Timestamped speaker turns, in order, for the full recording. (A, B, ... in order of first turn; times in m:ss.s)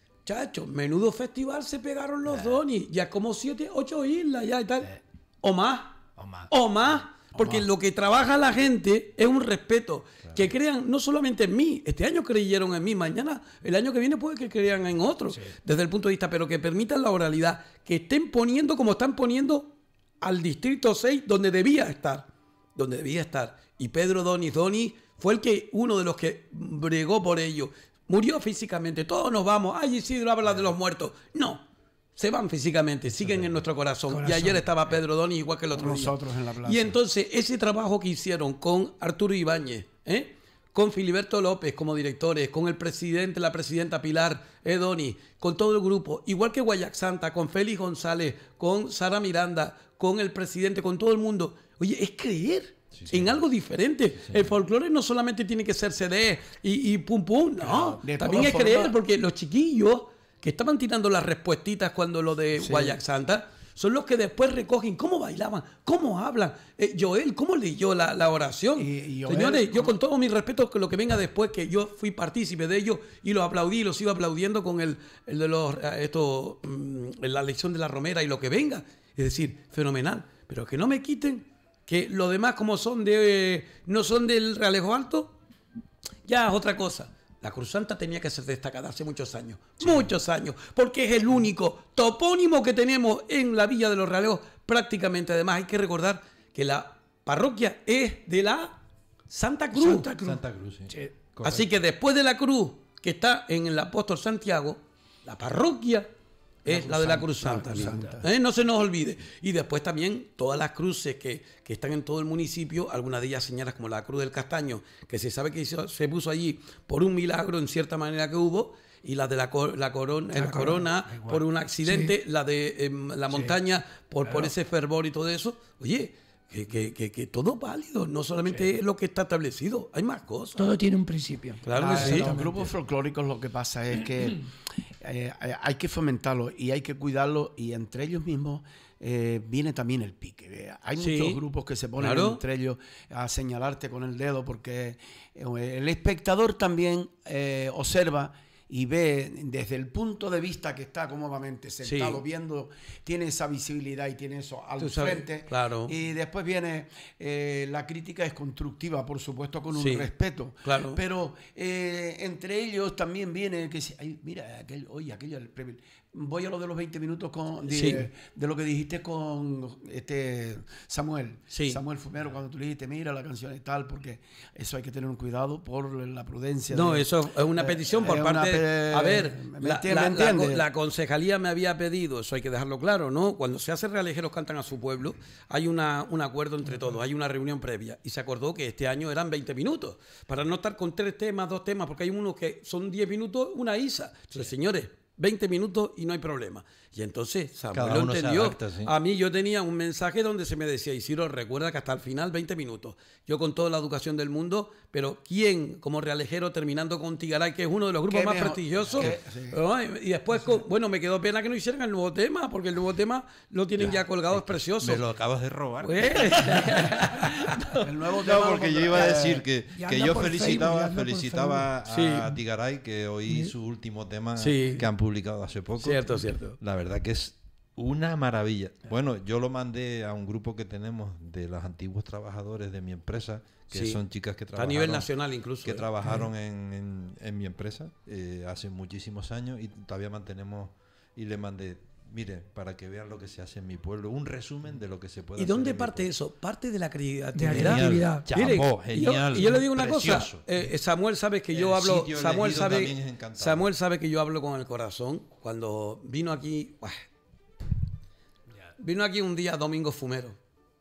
0:00.2-0:31.6 A
0:07.4-0:07.7 B
0:10.2-0:10.5 C
0:30.4-0:30.7 C
0:32.2-1:25.4 A
0:33.2-0:33.6 C
0:34.1-0:34.7 D
0:35.7-0:37.0 B
0:52.9-0:53.4 C
0:54.2-0:54.6 C
0:57.6-0:58.0 C
0:58.0-0:58.9 B
1:02.6-1:03.0 B
1:08.8-1:09.9 B
1:26.2-1:40.1 A
1:39.7-1:41.1 D
1:40.2-1:41.7 C
1:41.4-1:46.1 A
1:46.6-2:10.7 A
1:46.6-1:48.2 B
1:47.8-1:48.1 D
2:00.3-2:01.4 B
2:01.8-2:02.1 D
2:10.6-2:12.7 D
2:11.6-2:12.3 A
2:11.7-3:00.6 B
2:21.0-2:21.4 A
2:22.0-2:22.4 A
2:31.8-2:32.2 A
2:34.8-2:35.9 A
2:39.7-2:40.1 A
2:40.6-2:41.0 A
2:47.7-2:48.1 A
2:51.5-2:51.8 A
2:56.7-3:35.0 A
3:17.7-3:18.9 C
3:28.1-3:29.6 B
3:33.8-3:55.1 C
3:35.8-3:37.8 A
3:37.8-3:39.4 B
3:39.7-3:41.7 D
3:41.9-3:42.4 A
3:44.4-3:44.9 A
3:45.8-3:46.6 A
3:53.7-3:54.0 A
3:54.5-3:55.9 A
3:55.6-4:06.1 C
4:05.4-4:17.0 A
4:07.3-4:08.3 D
4:07.5-4:10.4 C
4:11.5-4:13.7 C
4:18.8-4:20.4 A